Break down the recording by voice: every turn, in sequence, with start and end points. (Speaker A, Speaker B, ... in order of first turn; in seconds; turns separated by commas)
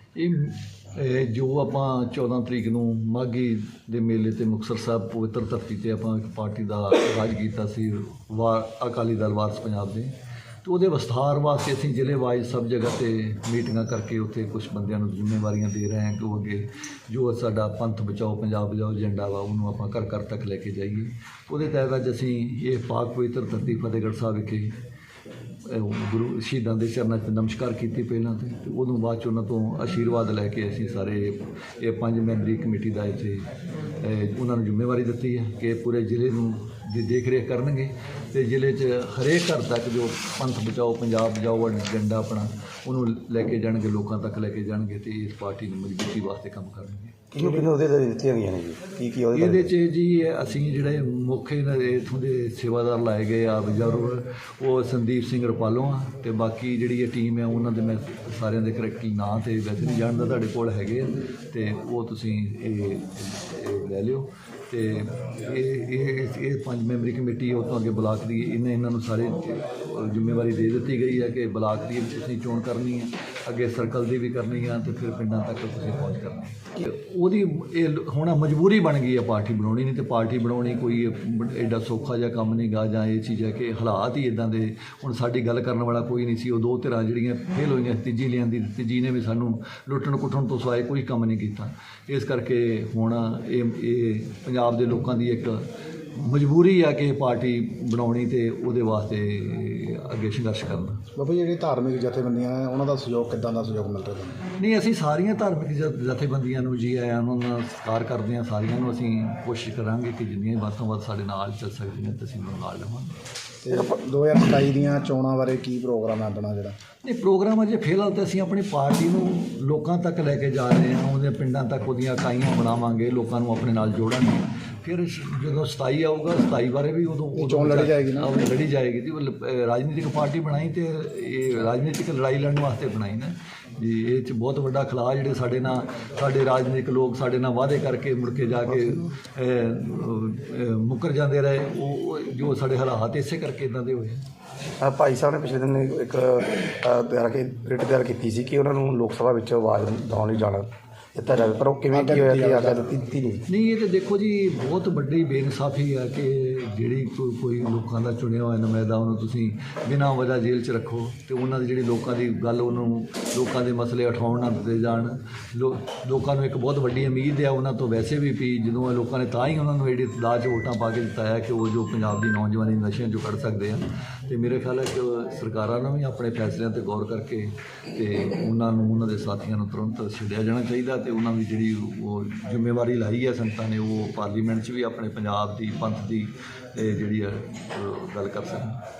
Speaker A: 0.2-10.1, Speaker A: 10.7-24.8, Speaker A: 25.6-47.2, Speaker B: 47.3-49.7, Speaker A: 49.3-101.0, Speaker C: 101.2-104.4, Speaker A: 104.6-113.1, Speaker C: 113.6-116.8, Speaker A: 117.0-144.2, Speaker C: 127.3-128.3, Speaker B: 144.8-153.4, Speaker C: 151.9-152.9, Speaker A: 153.5-188.8